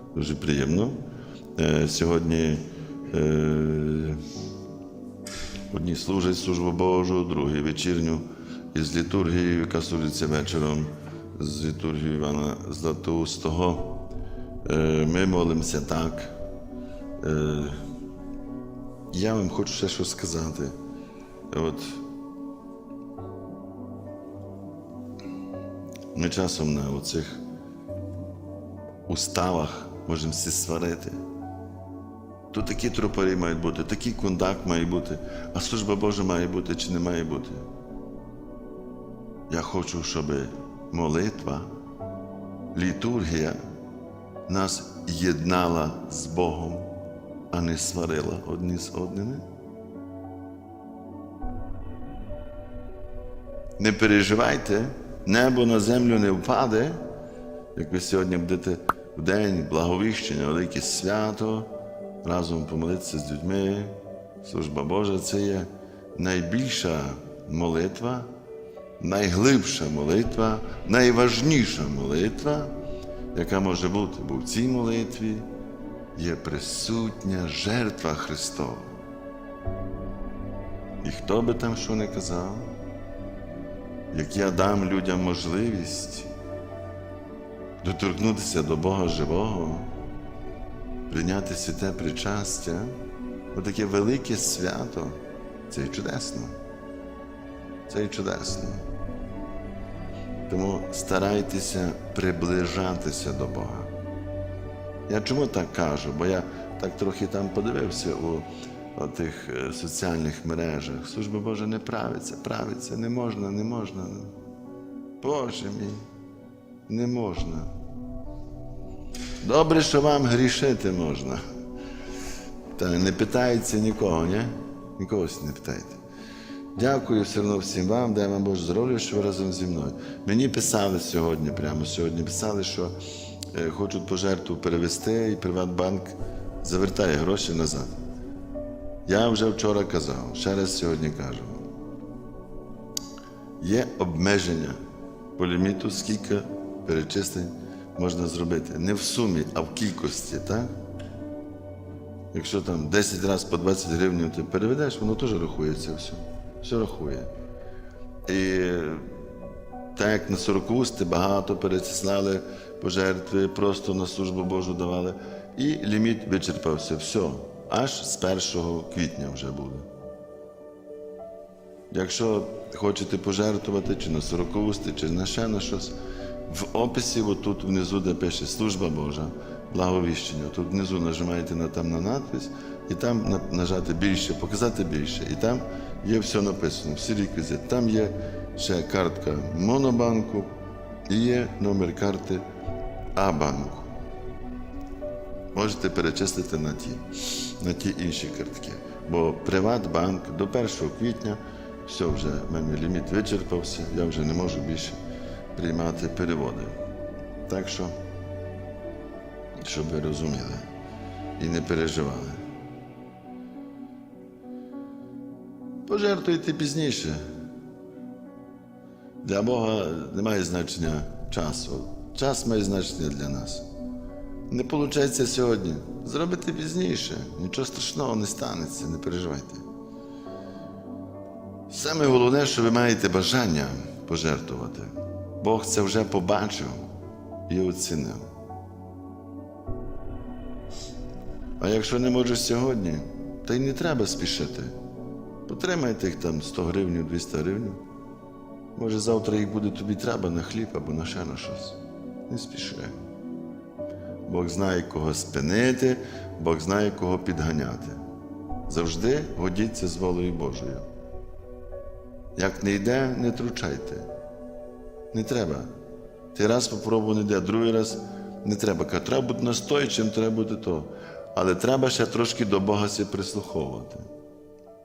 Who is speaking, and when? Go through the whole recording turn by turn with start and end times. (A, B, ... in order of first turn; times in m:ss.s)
0:00.1-0:01.0 A
0:01.6-0:04.2 A
0:05.7-0:13.9 A
0:14.6-0:16.3 A
0:17.2-0:17.8 A
0:19.1-0:20.7 A
0:21.5-0:22.0 A
0:26.1-0:27.4 A
0:29.1-0:31.2 A
0:32.5-0:37.6 A
0:39.5-0:41.7 A
0:42.7-0:43.6 A
0:44.5-0:46.9 A
0:47.5-0:49.4 A
0:53.8-0:57.0 A
0:57.7-1:01.7 A
1:02.2-1:08.3 A
1:09.0-1:12.7 A
1:13.3-1:15.5 A
1:16.1-1:18.9 A
1:21.0-1:22.7 A
1:24.1-1:26.3 A
1:27.8-1:29.9 A
1:31.1-1:33.0 A
1:33.5-1:36.5 A
1:37.9-1:38.8 A
1:40.5-1:43.9 A
1:45.1-1:54.3 A
1:55.2-1:56.0 A
1:56.9-1:57.7 A
1:59.4-2:01.4 A
2:02.7-2:06.0 A
2:06.7-2:12.9 A
2:13.5-2:18.0 A
2:19.0-2:21.6 A
2:23.6-2:24.8 A
2:25.4-2:30.7 A
2:32.3-2:37.3 A
2:38.3-2:39.1 A
2:39.9-2:49.8 A
2:51.9-2:55.9 A
2:56.5-3:10.5 A
3:11.1-3:12.4 A
3:13.2-3:13.9 A
3:15.5-3:25.0 A
3:25.5-3:26.7 A
3:27.5-3:27.9 A
3:29.6-3:30.6 A
3:31.4-3:32.4 A
3:35.8-3:37.2 A
3:39.2-3:43.6 A
3:44.5-3:49.6 A
3:51.7-3:56.8 A
3:57.5-3:58.3 A
4:01.6-4:04.7 A
4:05.5-4:07.8 A
4:08.7-4:13.0 A
4:14.2-4:18.0 A
4:18.7-4:20.8 A
4:22.4-4:24.1 A
4:25.1-4:25.7 A
4:26.3-4:34.1 A